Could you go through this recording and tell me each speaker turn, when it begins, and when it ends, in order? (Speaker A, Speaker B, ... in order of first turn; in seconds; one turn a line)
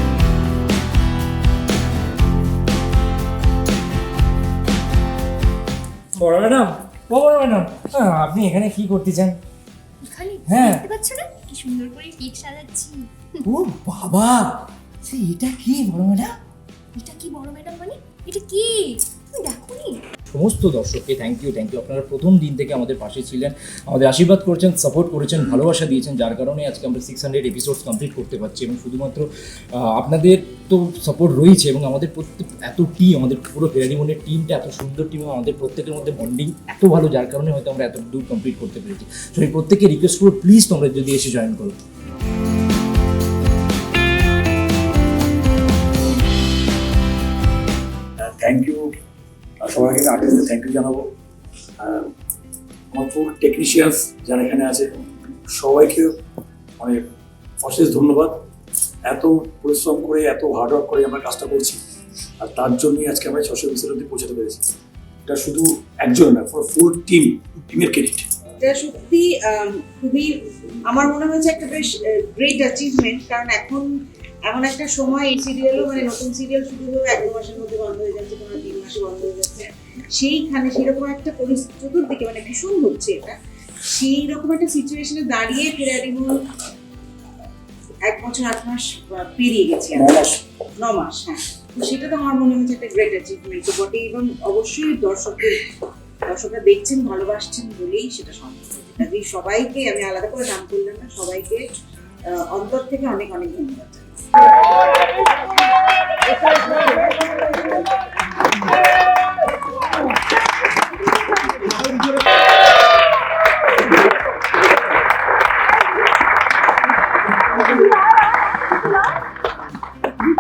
Speaker A: 6.1-9.4
Speaker B: 10.0-13.1
Speaker A: 10.5-10.8
Speaker A: 13.4-16.4
Speaker B: 17.0-20.0
Speaker A: 20.3-41.8
Speaker C: 48.2-48.9
Speaker C: 49.6-51.0
Speaker C: 51.8-52.1
Speaker C: 52.9-54.9
Speaker C: 55.5-56.1
Speaker C: 56.8-57.1
Speaker C: 57.6-58.4
Speaker C: 59.1-61.8
Speaker C: 62.4-64.7
Speaker C: 65.3-68.3
Speaker D: 68.6-70.3
Speaker D: 70.9-73.9
Speaker D: 74.5-86.4
Speaker D: 88.1-95.6
Speaker D: 96.3-101.6
Speaker D: 102.3-104.0